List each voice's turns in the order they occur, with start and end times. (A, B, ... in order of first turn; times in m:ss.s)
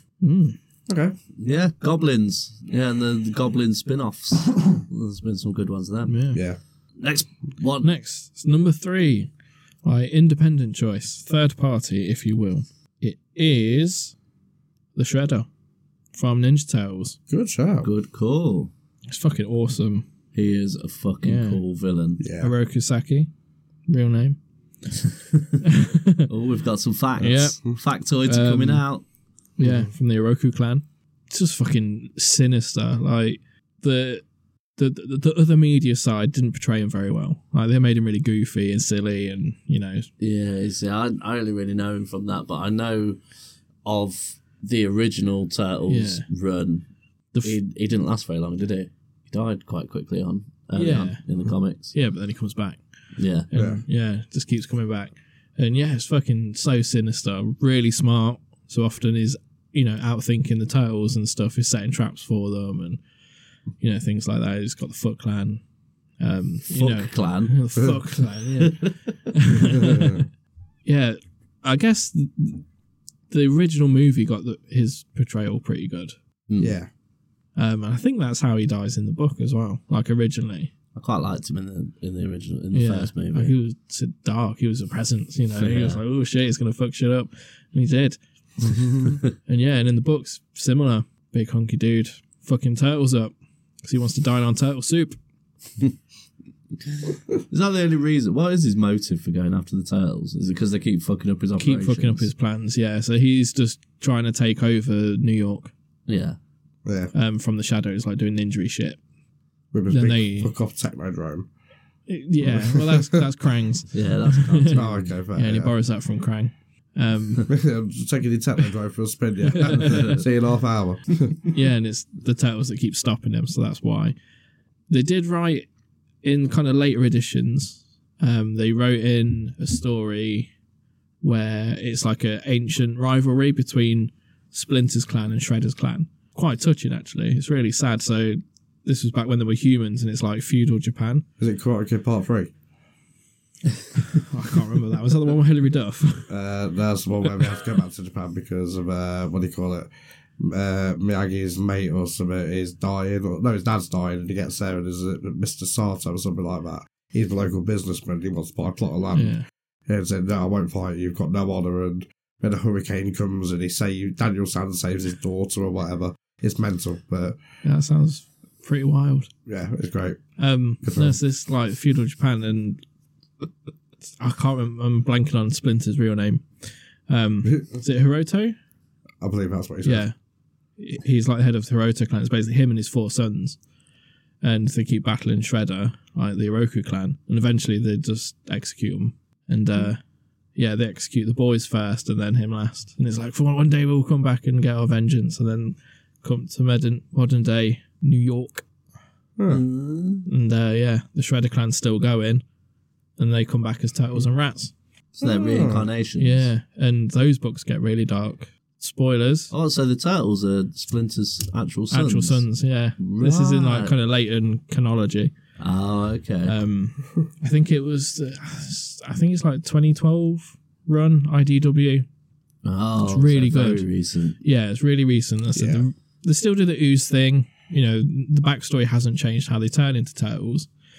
0:00.2-0:00.6 A
0:00.9-0:01.2 B
0:01.4-0:06.2 C
0:06.1-0:06.4 A
0:06.3-0:06.6 B
0:07.0-0:07.9 C
0:07.8-0:09.3 A
0:09.8-0:14.1 A
0:15.0-0:15.5 A
0:16.1-0:17.2 A
0:17.3-0:17.9 B
0:17.8-0:18.7 C
0:19.1-0:20.1 A
0:20.3-0:22.2 C
0:21.2-0:21.6 A
0:22.2-0:22.5 B
0:22.4-0:23.3 A
0:23.9-0:24.4 A
0:25.0-0:25.6 C
0:25.6-0:26.3 A
0:26.3-0:29.0 C
0:27.2-0:28.8 A
0:29.6-0:34.2 A
0:29.6-0:29.9 B
0:34.8-0:40.1 A
0:40.2-0:43.2 C
0:43.8-0:46.9 C
0:45.9-0:46.3 A
0:47.4-0:52.0 C
0:50.8-0:51.2 A
0:51.9-0:52.8 A
0:53.2-0:53.5 C
0:53.5-1:03.0 A
0:53.5-0:53.8 B
1:03.8-1:05.6 A
1:06.2-1:10.3 A
1:06.7-1:07.6 C
1:08.6-1:08.9 C
1:09.7-1:10.2 B
1:10.9-1:12.6 A
1:13.3-1:16.2 A
1:16.5-1:16.8 C
1:16.6-1:16.9 B
1:17.6-1:20.7 A
1:21.0-1:23.5 C
1:22.7-1:33.3 A
1:25.6-1:26.0 C
1:33.8-1:35.2 A
1:37.5-1:42.3 C
1:41.6-1:45.7 A
1:46.1-1:46.4 C
1:46.8-1:47.1 B
1:47.1-1:49.0 A
1:49.7-1:51.5 B
1:49.9-1:50.5 A
1:52.1-1:57.5 A
1:52.4-1:53.3 B
1:53.9-1:55.1 C
1:54.7-1:55.8 B
1:57.5-2:01.4 B
1:59.5-2:00.2 A
1:59.7-2:00.2 C
2:01.5-2:04.2 A
2:04.9-2:05.7 A
2:06.2-2:10.5 A
2:11.2-2:21.2 A
2:21.4-2:22.5 B
2:24.1-2:26.3 A
2:26.3-2:47.4 B
2:39.1-2:39.4 A
2:47.6-2:49.3 A
2:49.5-2:50.2 B
2:50.4-2:52.8 A
2:50.8-2:51.2 B
2:54.2-2:56.4 A
2:57.1-2:58.6 A
2:57.4-2:57.7 B
2:59.2-3:00.0 B
2:59.8-3:00.1 A
3:00.8-3:03.6 A
3:04.4-3:10.0 A
3:10.6-3:18.6 A
3:19.4-3:19.6 B
3:19.5-3:20.3 C
3:20.3-3:22.4 A
3:23.2-3:24.7 A
3:25.2-3:26.5 C
3:25.2-3:25.9 B
3:26.2-3:29.5 A
3:29.5-3:32.4 C
3:31.9-3:35.3 A
3:33.0-3:33.9 C
3:35.6-3:36.6 C
3:36.5-3:42.1 A
3:42.6-3:44.4 C
3:43.0-3:43.9 A
3:44.4-3:50.7 A
3:45.6-3:45.9 B